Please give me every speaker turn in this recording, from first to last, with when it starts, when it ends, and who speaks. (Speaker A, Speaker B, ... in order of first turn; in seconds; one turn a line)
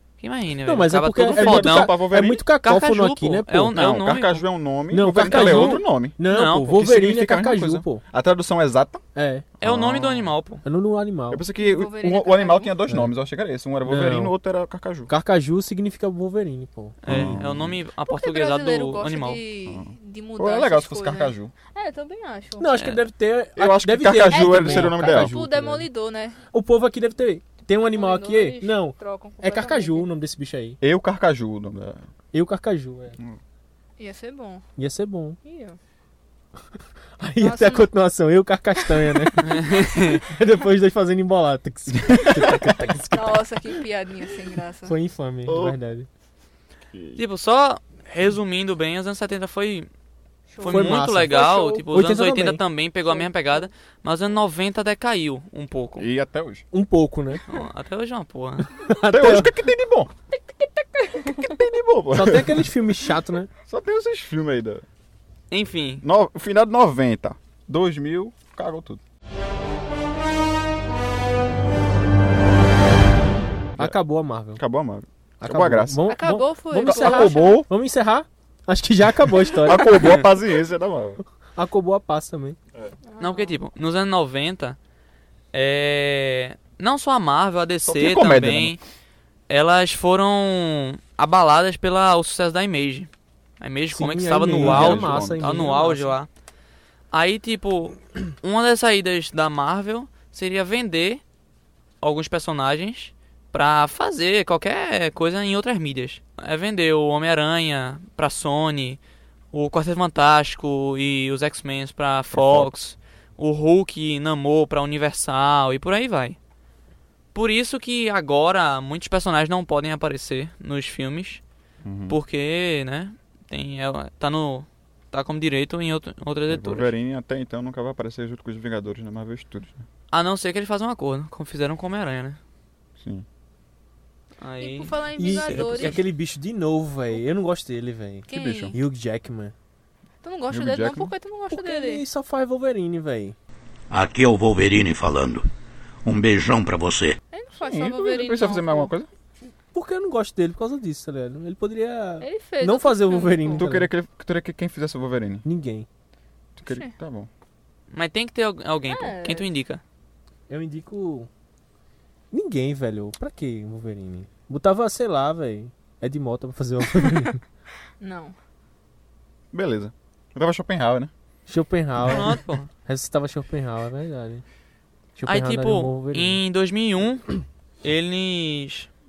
Speaker A: 0.2-2.0
Speaker B: 0.6-3.8
Speaker C: 1.2-2.4
Speaker A: 2.6-4.5
Speaker C: 3.7-9.0
Speaker B: 4.9-8.0
Speaker A: 5.2-6.7
Speaker B: 9.1-9.4
Speaker C: 9.6-10.4
Speaker A: 9.6-10.6
Speaker B: 10.6-11.4
Speaker C: 11.3-15.1
Speaker D: 11.6-12.8
Speaker B: 13.8-14.3
Speaker B: 15.1-17.0
Speaker A: 17.0-19.4
Speaker C: 17.1-17.8
Speaker D: 18.1-22.7
Speaker C: 19.7-21.5
Speaker B: 22.6-25.9
Speaker C: 23.6-25.4
Speaker D: 24.2-26.4
Speaker B: 26.5-30.8
Speaker D: 27.8-30.1
Speaker C: 30.8-32.0
Speaker B: 32.3-33.2
Speaker D: 34.0-34.6
Speaker B: 34.8-35.4
Speaker D: 35.4-35.8
Speaker B: 37.2-43.4
Speaker D: 37.4-37.9
Speaker D: 38.9-39.3
Speaker A: 39.4-40.2
Speaker C: 42.0-43.0
Speaker D: 43.1-45.0
Speaker B: 44.9-46.1
Speaker C: 45.5-45.8
Speaker C: 46.9-47.2
Speaker A: 47.2-49.9
Speaker D: 50.5-51.1
Speaker A: 50.6-56.1
Speaker B: 50.6-52.6
Speaker D: 53.0-53.7
Speaker C: 56.0-56.6
Speaker B: 56.7-57.4
Speaker A: 57.5-58.7
Speaker B: 58.8-59.5
Speaker C: 59.0-60.1
Speaker D: 60.8-61.5
Speaker C: 61.3-62.8
Speaker B: 62.1-63.5
Speaker C: 63.7-64.8
Speaker A: 65.5-66.0
Speaker C: 66.0-69.0
Speaker B: 73.8-74.6
Speaker C: 74.6-76.1
Speaker B: 75.4-80.1
Speaker D: 76.1-77.6
Speaker C: 76.8-77.7
Speaker C: 79.5-81.2
Speaker B: 81.6-82.6
Speaker D: 83.1-83.6
Speaker A: 83.2-84.8
Speaker A: 85.5-88.8
Speaker C: 87.8-88.8
Speaker A: 89.5-96.3
Speaker B: 93.9-96.2
Speaker C: 94.5-95.6
Speaker A: 97.1-101.2
Speaker A: 102.0-109.0
Speaker A: 109.5-116.4
Speaker C: 112.3-112.7
Speaker A: 117.3-121.4
Speaker C: 121.8-122.2
Speaker A: 122.1-126.9
Speaker C: 126.5-129.8
Speaker A: 130.1-132.4
Speaker C: 133.0-133.2
Speaker A: 134.4-136.0
Speaker D: 134.6-136.0
Speaker B: 135.2-139.5
Speaker D: 138.3-138.8
Speaker C: 138.3-138.8
Speaker D: 140.2-142.0
Speaker C: 140.5-141.1
Speaker B: 141.5-143.4
Speaker E: 143.9-145.5
Speaker E: 146.0-147.2
Speaker D: 147.3-148.9
Speaker C: 147.6-149.1
Speaker B: 149.7-153.9
Speaker D: 152.2-153.7
Speaker C: 153.6-155.4
Speaker B: 155.4-155.9
Speaker C: 156.6-157.3
Speaker A: 157.9-159.8
Speaker D: 158.8-159.5
Speaker B: 160.5-161.3
Speaker B: 162.3-167.4
Speaker D: 168.0-168.3
Speaker C: 169.5-171.1
Speaker B: 171.5-174.4
Speaker A: 172.0-172.7
Speaker B: 175.2-176.4
Speaker A: 175.3-178.9